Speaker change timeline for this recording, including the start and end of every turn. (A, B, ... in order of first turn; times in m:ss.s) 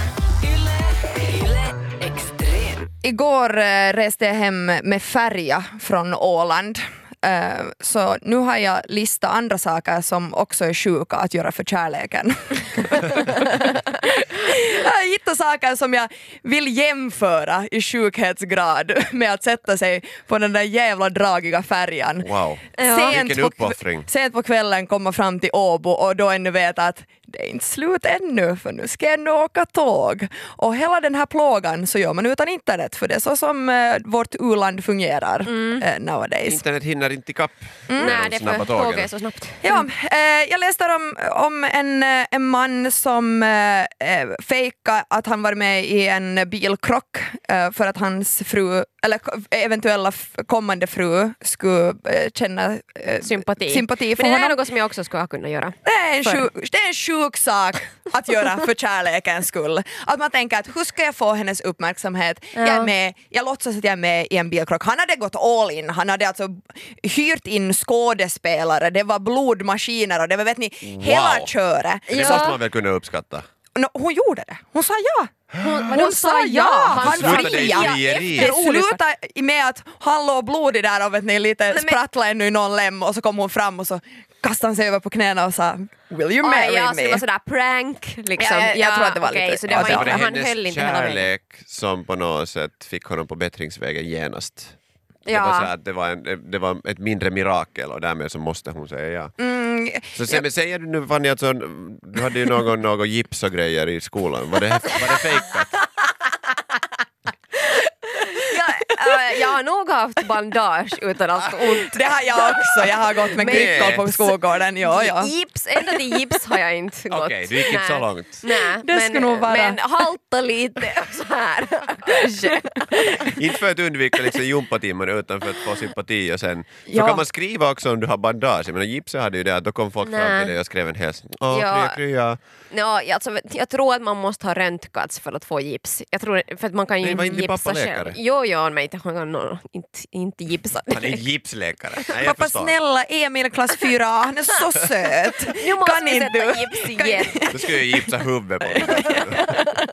0:03.0-0:36.6 A
0:22.2-0:24.1 B
0:22.8-0:23.2 C
0:35.4-0:35.8 C
0:36.4-0:39.1 B
0:37.9-0:38.2 A
0:38.0-0:39.9 C
0:39.6-0:54.6 A
0:53.2-0:56.4 C
0:55.8-1:12.5 A
1:02.6-1:02.9 C
1:10.8-1:11.5 B
1:12.1-1:12.6 C
1:12.1-1:13.5 B
1:13.8-1:27.2 A
1:15.6-1:19.0 C
1:17.0-1:18.5 B
1:21.7-1:22.0 C
1:26.4-1:31.3 C
1:28.4-1:30.2 A
1:29.7-1:34.8 B
1:35.2-1:35.7 C
1:35.3-1:39.4 B
1:39.4-1:40.4 A
1:40.1-1:45.7 B
1:48.1-2:03.4 C
1:51.8-1:56.0 A
1:53.4-1:54.1 B
1:57.1-1:58.4 B
1:58.5-1:59.8 A
2:03.2-2:12.4 B
2:06.9-2:07.2 A
2:10.0-2:10.5 C
2:11.5-2:12.0 C
2:12.7-2:21.2 C
2:17.0-2:18.2 B
2:20.9-2:22.7 B
2:22.2-2:29.7 A
2:25.5-2:27.4 C
2:27.5-2:29.6 B